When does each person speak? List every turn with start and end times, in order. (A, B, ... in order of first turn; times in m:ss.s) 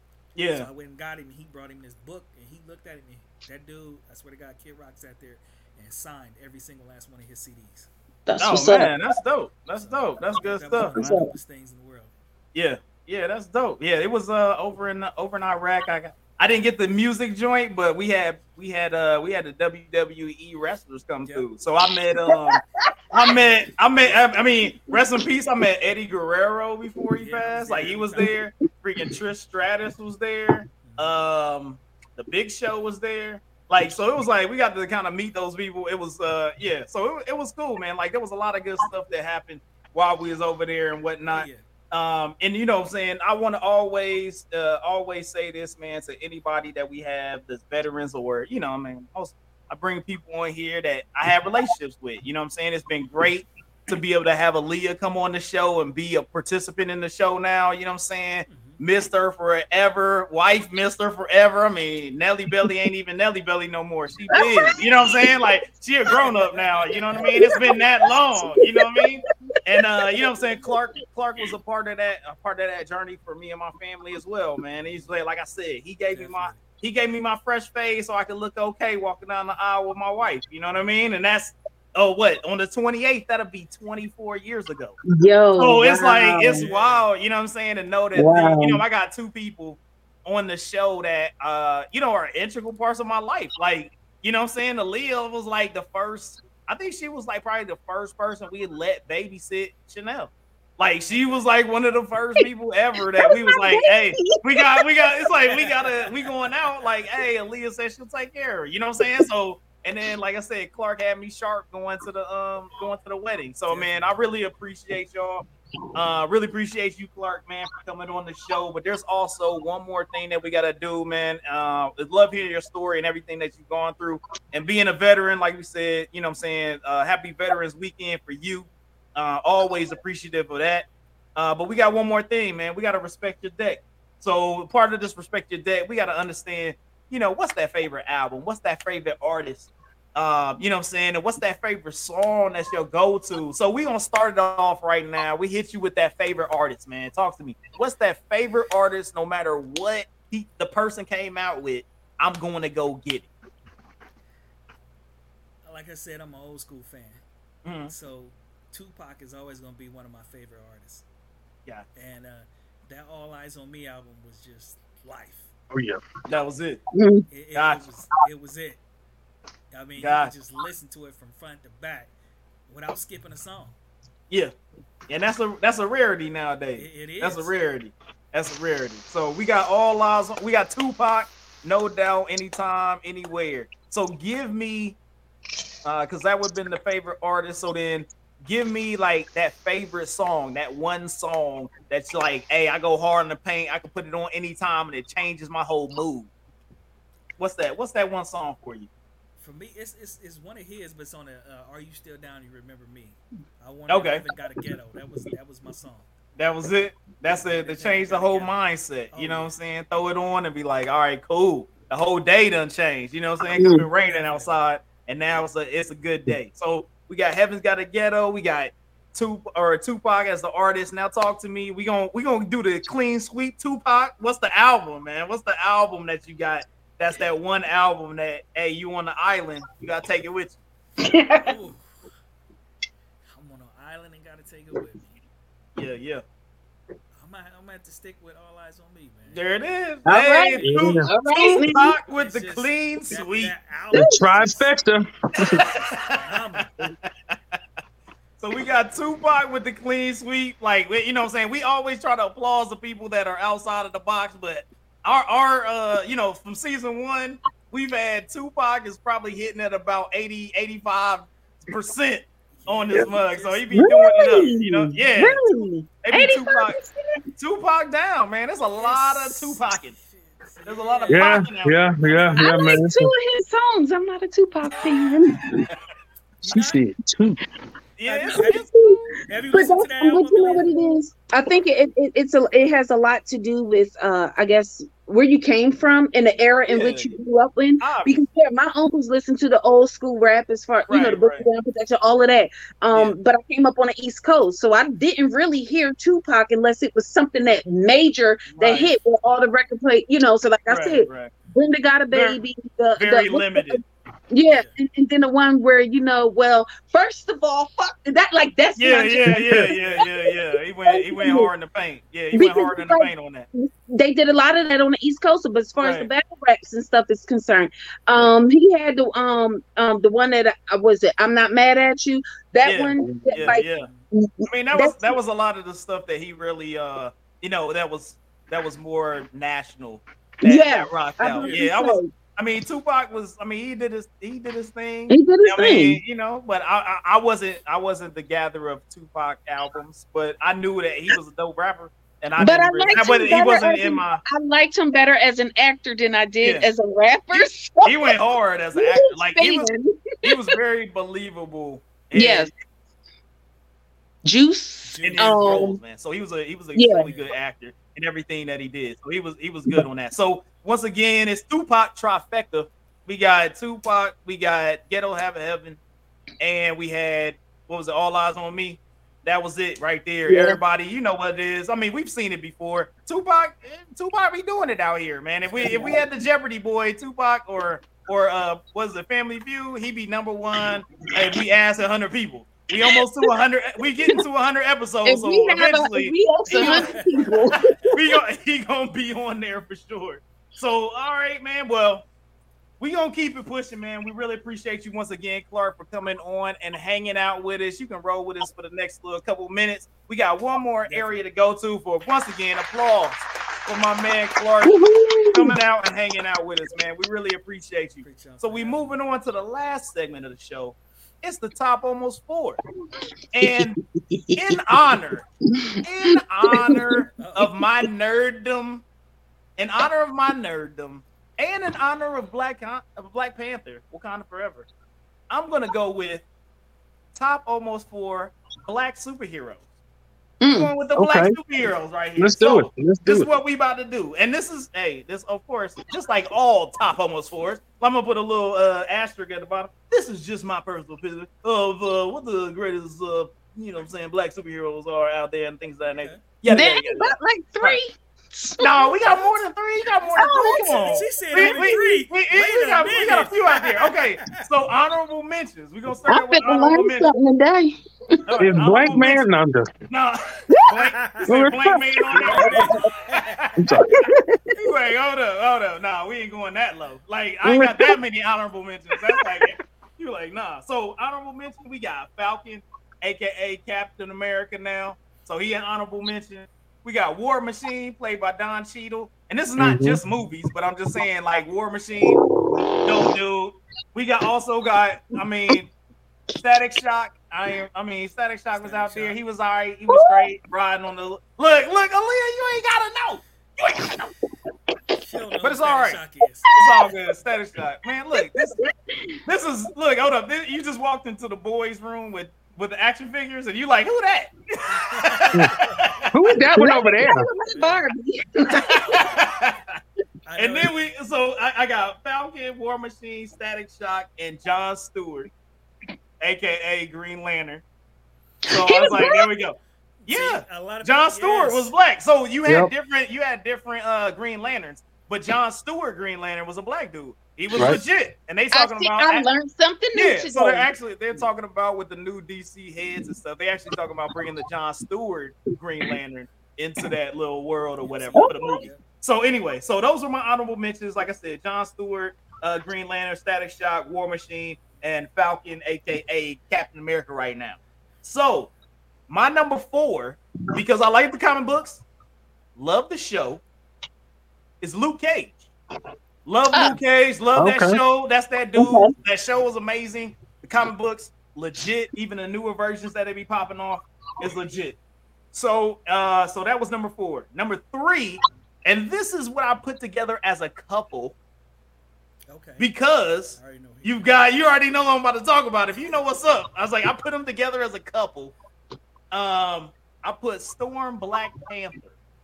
0:00.3-0:00.7 A
0:00.5-0:07.9 B
0:08.2-0:08.9 C
0:08.4-0:11.2 A
0:09.7-0:12.1 B
0:11.0-0:11.3 C
0:12.5-0:22.6 A
0:21.2-0:21.5 B
0:22.3-0:22.6 C
0:23.1-1:25.0 A
0:23.3-0:24.8 B
0:27.2-0:28.4 B
0:30.8-0:31.2 B
0:41.3-0:41.6 B
0:58.5-0:58.8 B
1:04.3-1:04.7 C
1:06.2-1:07.6 B
1:07.3-1:07.8 C
1:08.4-1:09.1 C
1:16.1-1:16.6 B
1:25.1-1:26.6 C
1:25.6-2:33.3 A
1:26.4-1:27.1 B
1:28.1-1:28.8 C
1:43.2-1:45.2 C
1:45.6-1:46.9 B
1:53.7-1:54.2 B
2:35.6-2:37.2 B
2:37.6-2:37.9 A
2:37.9-2:41.0 B
2:41.9-2:45.5 B
2:45.7-2:46.0 D
2:46.2-2:46.8 A
2:46.9-2:47.3 C
2:47.3-2:48.8 B
2:47.5-2:47.8 A
2:49.7-2:52.1 B
2:50.0-2:50.3 A
2:52.7-2:53.8 B
2:55.1-3:05.0 A
2:56.8-2:57.5 B
3:05.8-3:16.3 A
3:17.4-3:18.9 A
3:19.4-3:26.1 B
3:23.9-3:24.2 A
3:26.4-3:50.6 A
3:27.3-3:28.6 B
3:29.1-3:29.5 B
3:33.6-3:33.9 C
3:34.0-3:34.5 B
3:51.0-3:51.5 C
3:51.4-3:51.9 B
3:53.3-3:55.1 B
3:55.8-3:56.2 A
3:57.2-3:59.4 B
3:59.3-4:03.5 A
4:00.0-4:01.9 C
4:00.6-4:01.1 D
4:01.5-4:04.7 B
4:03.9-4:05.6 D
4:03.9-4:04.2 C
4:05.5-4:07.6 A
4:05.6-4:06.9 B
4:08.4-4:25.5 A
4:22.5-4:23.9 B
4:23.7-4:27.0 C
4:26.0-4:26.8 A
4:27.4-4:29.9 A
4:28.8-4:32.8 B
4:30.6-4:32.0 A
4:31.1-4:33.1 D
4:32.4-4:35.6 C
4:36.4-4:36.8 B
4:36.5-4:37.4 D
4:38.0-4:39.2 A
4:38.0-4:38.7 B
4:38.5-4:39.0 C
4:39.2-4:40.7 B
4:39.5-5:09.5 C
4:46.7-4:47.1 A
4:47.8-4:48.2 A
4:50.9-4:51.5 A
4:52.9-4:53.2 A
4:58.5-4:59.0 A
5:00.7-5:01.3 A
5:02.1-5:02.4 A
5:03.0-5:03.8 A
5:04.5-5:04.7 B
5:08.8-5:13.5 A
5:09.3-5:09.7 D
5:09.7-5:10.0 B
5:10.0-5:10.3 C
5:10.8-5:11.5 C
5:12.3-5:25.2 C
5:15.8-5:16.1 A
5:22.6-5:23.9 A
5:23.0-5:23.3 D
5:23.4-5:24.1 B
5:24.5-5:44.2 A
5:30.4-5:32.1 C
5:31.4-5:31.6 B
5:35.1-5:36.0 C
5:42.4-5:48.1 C
5:46.4-5:46.7 A
5:47.3-5:49.7 A
5:48.8-5:50.1 C
5:50.2-5:52.6 A
5:52.1-5:52.5 C
5:54.2-5:55.8 C
5:54.8-5:55.7 B
5:55.0-6:05.8 A
5:56.7-5:57.1 C
5:57.0-5:57.3 B
6:06.4-6:26.9 A
6:10.3-6:10.6 C
6:15.5-6:15.8 B
6:15.6-6:16.0 C
6:25.0-6:27.9 C
6:26.5-6:27.9 B
6:27.5-6:32.0 A
6:32.8-6:44.8 A
6:40.9-6:41.2 B
6:44.6-6:45.6 C
6:45.3-6:52.6 A
6:48.0-6:49.2 B
6:53.3-6:53.8 A
6:53.4-6:54.4 C
6:54.3-6:55.3 A
6:55.5-6:57.5 C
6:55.8-6:58.8 A
6:57.2-6:57.6 B
6:59.6-7:04.7 A
7:05.3-7:06.2 A
7:07.1-7:09.6 A
7:10.4-7:10.7 C
7:10.5-7:27.8 A
7:11.0-7:11.4 D
7:12.2-7:13.3 D
7:26.0-7:26.2 B
7:26.5-7:28.7 C
7:28.6-7:37.1 A
7:29.1-7:29.4 B
7:30.0-7:34.4 B
7:30.2-7:31.6 C
7:36.1-7:38.2 C
7:38.3-7:39.3 A
7:38.4-7:39.8 D
7:39.9-7:43.6 A
7:40.5-7:40.8 C
7:41.3-7:41.8 D
7:42.0-7:42.9 C
7:42.1-7:43.4 B
7:43.6-7:44.1 D
7:43.9-7:44.5 C
7:44.6-8:02.2 A
7:47.4-7:47.9 C
7:59.6-8:00.0 D
8:02.8-8:05.7 A
8:06.4-8:14.1 A
8:08.6-8:09.2 B
8:09.9-8:10.3 C
8:15.0-8:16.5 B
8:15.4-8:16.0 A
8:16.5-8:18.5 A
8:18.2-8:19.2 C
8:19.2-8:26.1 A
8:24.7-8:25.8 B
8:26.1-8:27.3 D
8:26.5-8:29.0 C
8:27.5-8:27.8 B
8:28.7-8:29.8 A
8:28.9-8:29.2 B
8:30.2-8:30.8 B
8:30.4-8:35.3 A
8:36.2-8:37.6 A
8:38.5-8:49.3 A
8:38.6-8:39.3 C
8:40.0-8:41.7 B
8:47.5-8:47.8 D
8:48.5-8:50.7 C
8:49.9-9:08.5 A
8:57.8-8:58.8 B
8:58.2-8:58.6 C
9:09.1-9:11.8 A
9:12.6-9:13.4 A
9:14.6-9:15.5 A
9:16.2-9:24.8 A
9:16.5-9:16.8 C
9:17.4-9:17.8 D
9:18.6-9:18.9 C
9:25.3-9:31.2 A
9:32.3-9:32.7 B
9:32.6-9:38.3 A
9:33.3-9:34.0 B
9:39.1-9:42.0 A